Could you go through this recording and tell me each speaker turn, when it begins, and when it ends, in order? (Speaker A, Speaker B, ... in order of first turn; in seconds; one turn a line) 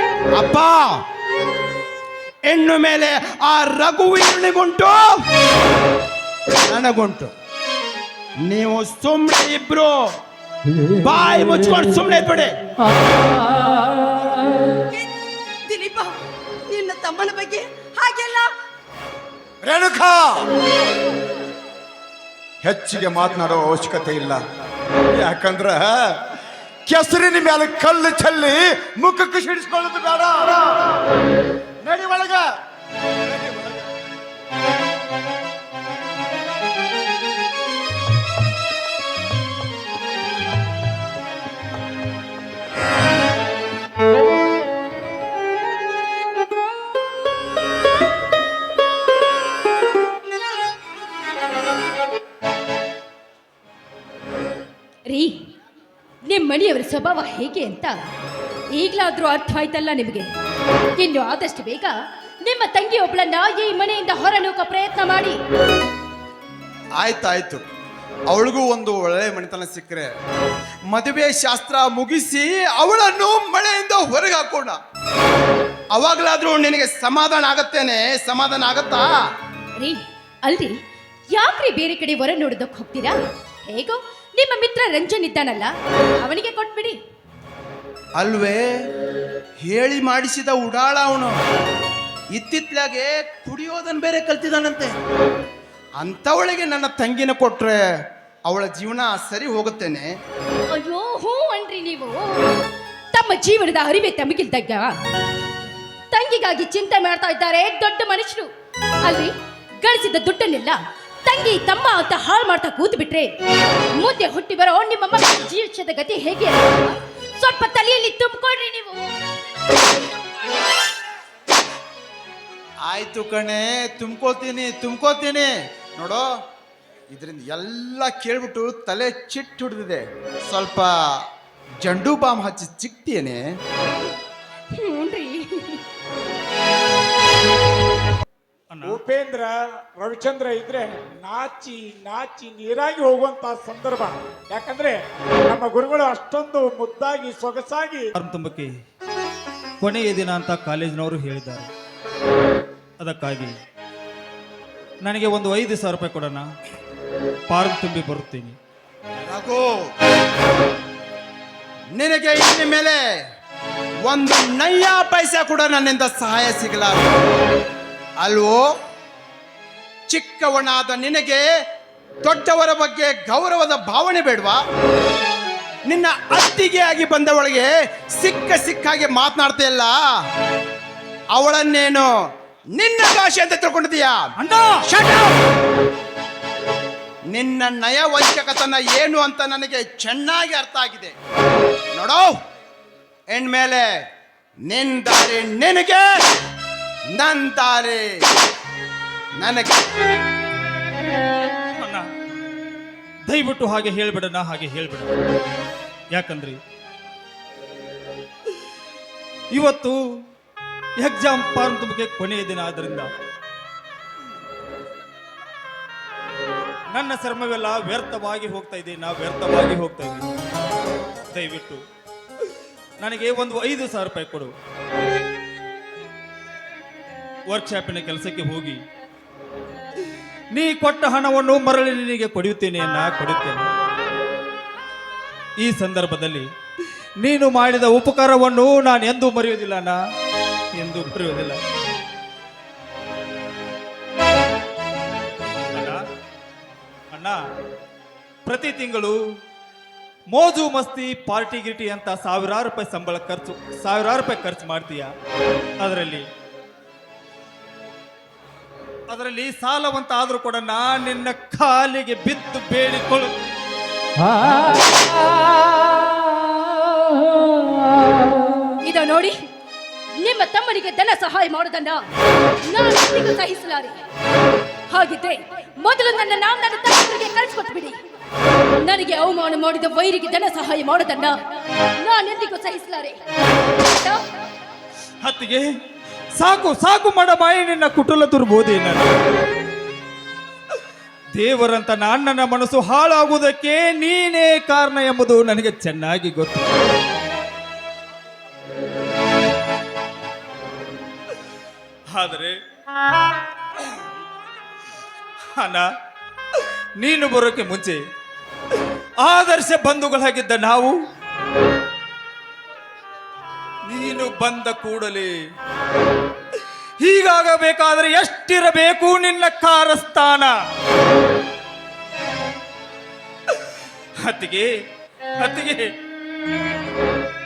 Speaker A: 0.3-1.0
Speaker A: 2.5-5.2
Speaker A: 6.7-7.3
Speaker A: 8.4-10.2
Speaker A: 11.0-12.6
Speaker B: 15.7-16.1
Speaker B: 16.7-18.5
Speaker C: 19.6-20.4
Speaker C: 22.6-24.4
Speaker C: 25.1-26.2
Speaker C: 26.9-31.0
Speaker C: 31.8-32.5
Speaker D: 55.1-55.3
Speaker D: 56.3-58.0
Speaker D: 58.7-60.3
Speaker D: 61.0-61.9
Speaker D: 62.4-65.4
Speaker A: 67.0-67.7
Speaker A: 68.3-70.2
Speaker A: 70.9-74.8
Speaker A: 75.9-79.1
Speaker D: 79.8-80.8
Speaker D: 81.3-83.2
Speaker D: 83.7-87.0
Speaker A: 88.2-88.7
Speaker A: 89.6-91.4
Speaker A: 92.3-95.0
Speaker A: 96.0-97.8
Speaker A: 98.5-100.1
Speaker D: 100.7-102.4
Speaker D: 103.1-104.9
Speaker D: 106.1-108.5
Speaker D: 109.0-113.3
Speaker D: 114.0-119.0
Speaker A: 122.9-126.3
Speaker A: 127.1-131.2
Speaker A: 131.8-133.4
Speaker D: 134.7-135.8
Speaker E: 138.7-139.0
Speaker F: 138.8-148.1
Speaker E: 148.2-148.7
Speaker E: 149.8-151.7
Speaker E: 153.0-153.6
Speaker E: 155.0-156.5
Speaker E: 157.5-158.6
Speaker A: 159.2-159.9
Speaker A: 161.9-163.0
Speaker A: 164.1-167.2
Speaker A: 168.2-168.6
Speaker A: 170.1-171.4
Speaker A: 172.2-174.6
Speaker A: 175.9-180.0
Speaker A: 181.3-182.1
Speaker A: 182.7-184.3
Speaker E: 184.4-184.8
Speaker A: 184.9-185.4
Speaker A: 187.3-191.2
Speaker A: 191.9-192.4
Speaker A: 193.3-194.1
Speaker A: 194.7-196.1
Speaker A: 197.1-198.2
Speaker A: 199.4-199.9
Speaker E: 201.8-202.1
Speaker E: 203.3-205.1
Speaker E: 206.1-206.6
Speaker E: 209.5-210.0
Speaker E: 211.0-213.1
Speaker E: 216.9-220.3
Speaker E: 221.3-221.8
Speaker E: 223.0-224.5
Speaker E: 227.5-228.8
Speaker E: 230.5-233.7
Speaker E: 235.6-236.5
Speaker E: 237.2-240.0
Speaker E: 240.8-241.6
Speaker E: 245.7-246.0
Speaker E: 247.1-247.4
Speaker E: 248.5-249.2
Speaker E: 250.3-255.1
Speaker E: 255.8-256.3
Speaker E: 259.1-263.4
Speaker D: 268.8-269.4
Speaker D: 270.2-272.0
Speaker D: 272.6-274.0
Speaker D: 274.9-278.0
Speaker D: 278.8-281.4
Speaker D: 282.0-283.2
Speaker D: 283.8-284.2
Speaker E: 285.2-285.7
Speaker E: 286.4-289.1
Speaker E: 291.4-296.7
Speaker E: 302.1-302.6
Speaker E: 305.6-305.9
Speaker E: 307.0-308.0
Speaker E: 309.2-310.9
Speaker E: 313.9-315.3
Speaker E: 317.0-320.5
Speaker E: 324.2-324.7
Speaker E: 325.4-325.9